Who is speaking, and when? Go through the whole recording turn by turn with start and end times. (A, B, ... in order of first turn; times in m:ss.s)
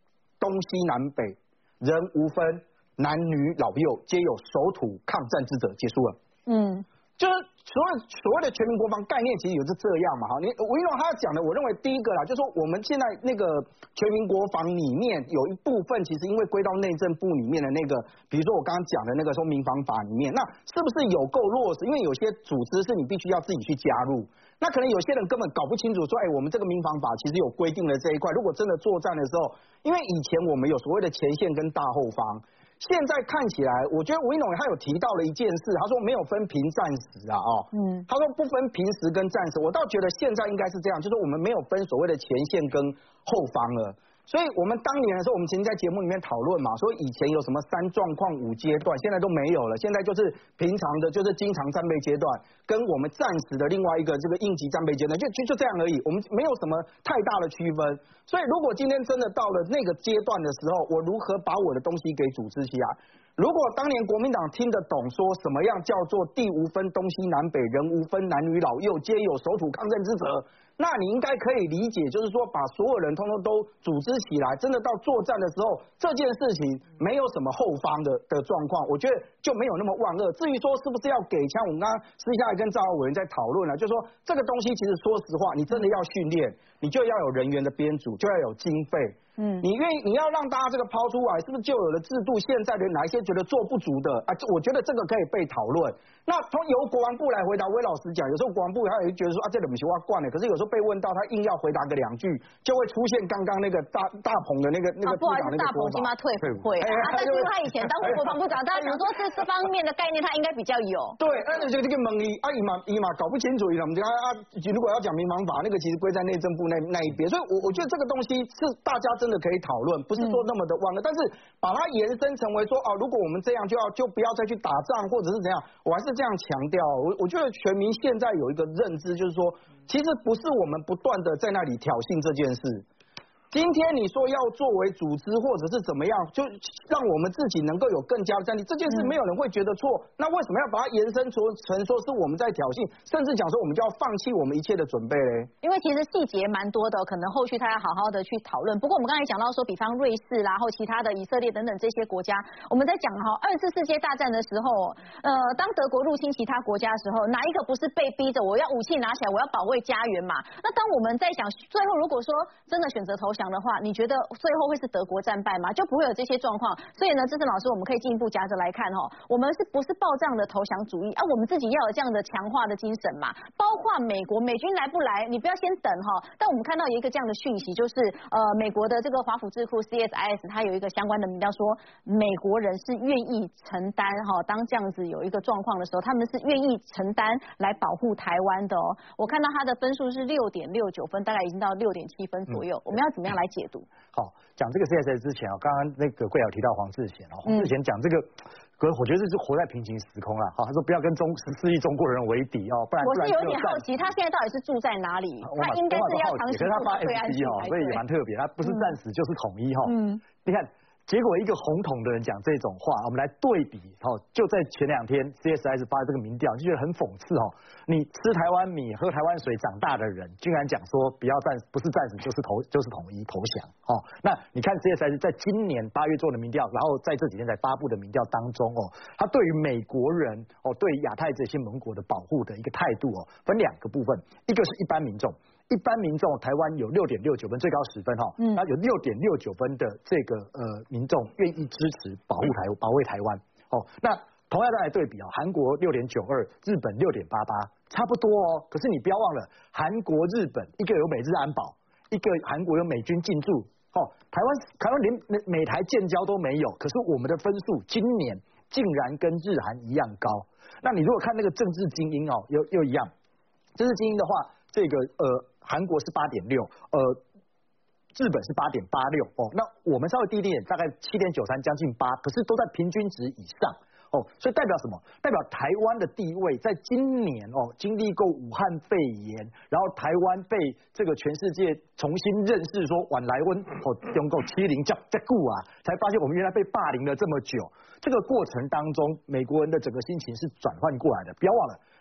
0:00.4-0:06.2 A
0:06.5-0:06.8 B
0:07.2-1:46.1 A
0:37.7-0:38.0 B
1:29.4-1:29.6 B
1:45.0-1:51.2 B
1:46.8-1:49.0 A
1:51.2-2:12.8 A
2:13.5-2:25.5 A
2:25.6-3:13.9 B
3:14.1-3:23.8 C
3:17.5-3:17.7 B
3:23.0-3:28.0 B
3:25.4-4:23.1 C
3:28.6-3:28.9 B
3:29.9-3:30.2 B
4:23.8-4:27.2 C
4:28.1-4:51.8 C